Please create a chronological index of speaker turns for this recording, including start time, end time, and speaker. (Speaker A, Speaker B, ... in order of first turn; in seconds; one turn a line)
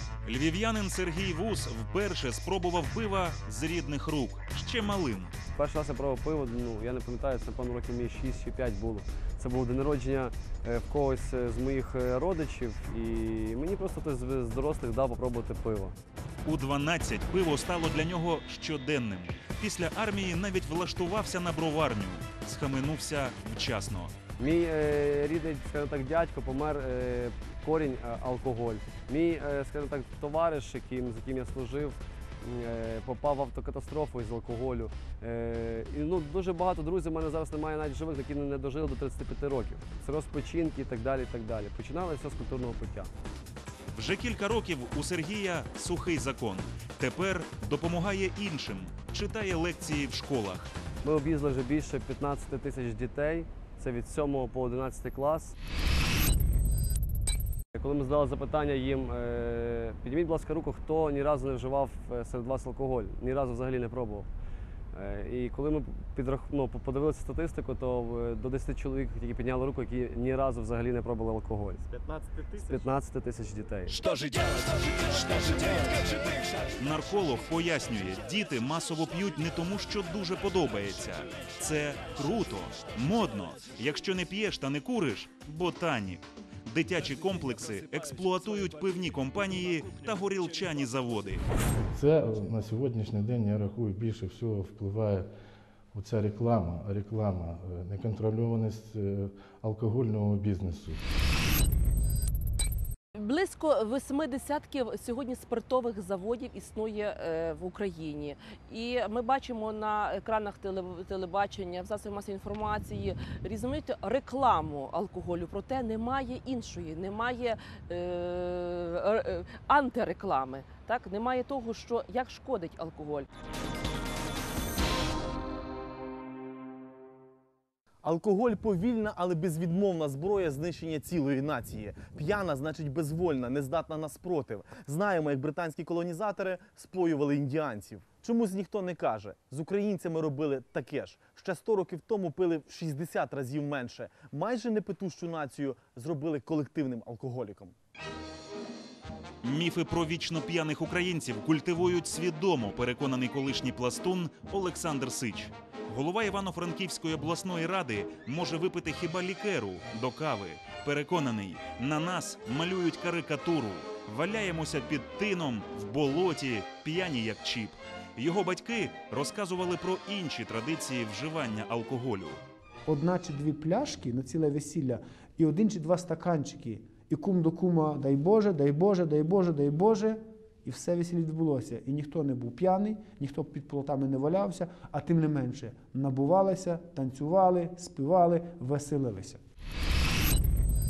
Speaker A: 0.2-5.3
Speaker B: 5.5-16.0
Speaker A: 16.4-24.2
Speaker B: 24.4-43.1
Speaker A: 43.9-50.7
Speaker B: 51.0-55.6
Speaker B: 57.8-64.3
Speaker B: 64.9-71.8
Speaker C: 71.9-72.8
Speaker B: 72.6-74.0
Speaker A: 76.8-91.4
Speaker D: 91.8-95.3
Speaker D: 95.9-101.0
Speaker E: 103.2-123.3
Speaker C: 128.0-147.8
Speaker A: 149.4-172.4
Speaker F: 172.9-189.4